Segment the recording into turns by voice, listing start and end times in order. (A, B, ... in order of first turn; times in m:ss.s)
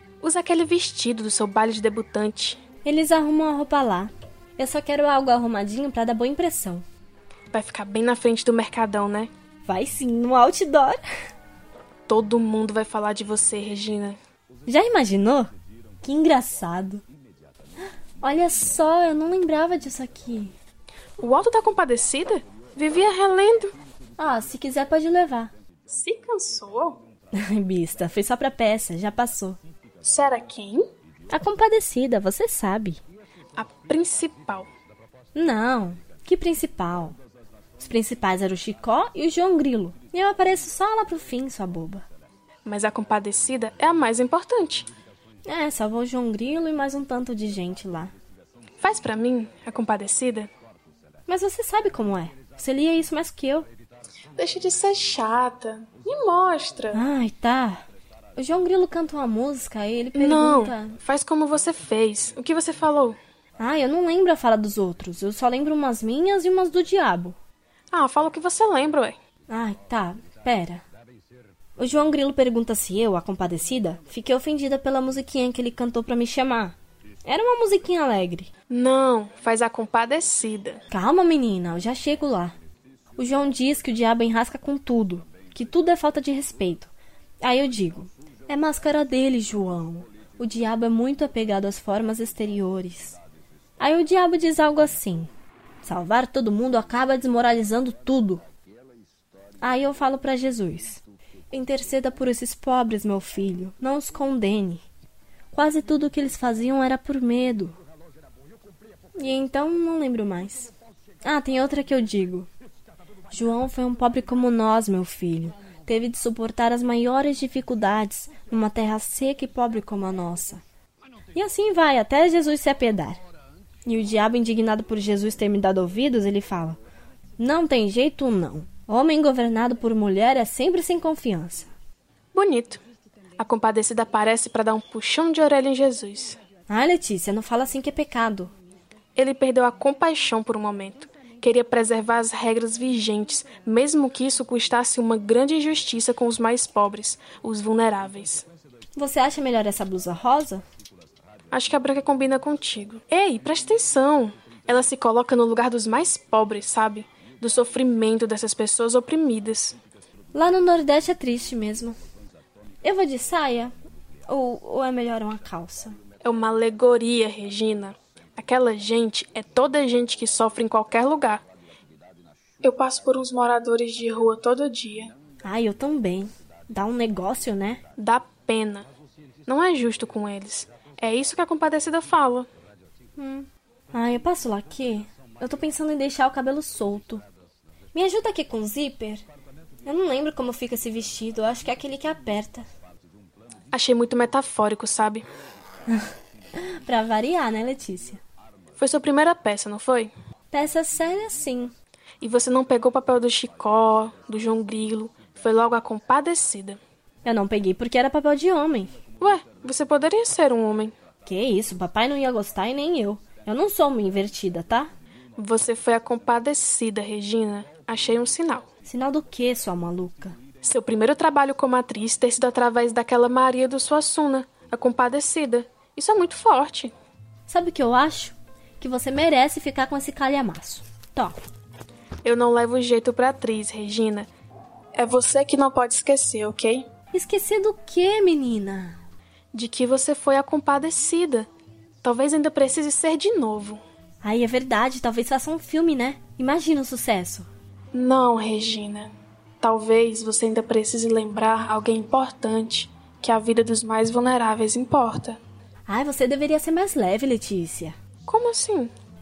0:00.2-0:02.6 A
0:02.8-0:06.8 B
0:07.5-0:09.3 A
0:09.6-0:11.0 B
0:12.1-0:14.2 A
0:14.7-0:15.5 B
0:16.0-0:17.0 B
0:18.2-0:20.5 B
0:21.2-0:23.7 A
0:24.2-0:25.5 B
0:25.9-0:27.0 A
0:27.3-0:29.6 B
0:30.0-0:30.9 A
0:31.3-0:33.0 B
0:33.6-0:34.7 A
0:35.3-0:37.2 B
0:37.8-0:42.0 B
0:42.6-0:44.9 A
0:45.4-0:48.1 B
0:48.8-0:50.5 A
0:51.3-0:53.7 B
0:54.4-0:57.0 A
0:56.9-1:01.0 B
1:00.2-1:03.2 A
1:03.6-1:07.4 B
1:07.9-1:09.2 A
1:09.5-1:10.8 B
1:11.8-1:18.5 B
1:18.7-1:20.8 A
1:20.9-1:22.6 B
1:23.2-1:33.2 B
1:33.8-1:35.3 B
1:35.8-1:38.4 B
1:39.6-1:44.8 B
1:45.5-1:47.8 B
1:49.1-1:50.7 B
1:51.2-1:52.5 B
1:53.3-2:00.6 B
2:01.3-2:03.2 B
2:03.8-2:06.8 B
2:07.4-2:11.7 B
2:12.3-2:12.8 A
2:13.4-2:16.4 A
2:16.7-2:18.5 B
2:19.2-2:28.5 A
2:29.0-2:30.6 B
2:31.5-2:39.8 A
2:40.3-2:42.0 B
2:42.8-2:43.7 B
2:44.3-2:46.0 B
2:46.2-2:51.4 A
2:52.6-2:55.1 A
2:55.4-2:57.8 B
2:58.0-2:58.9 A
2:59.4-3:02.5 A
3:03.2-3:07.2 B
3:07.9-3:09.3 B
3:09.8-3:12.6 B
3:13.7-3:15.2 A
3:15.9-3:18.2 B
3:18.8-3:20.1 A
3:20.5-3:21.7 B
3:22.2-3:26.8 A
3:27.2-3:28.9 B
3:29.2-3:30.9 A
3:31.2-3:34.9 B
3:35.4-3:38.7 A
3:38.8-3:40.4 B
3:40.6-3:46.9 A
3:47.5-3:51.4 B
3:52.2-3:54.3 A
3:54.9-3:56.9 A
3:57.1-3:59.0 B
3:59.5-4:01.5 A
4:02.0-4:03.8 A
4:04.2-4:07.5 B
4:07.9-4:15.4 A
4:15.9-4:17.9 B
4:18.3-4:18.9 A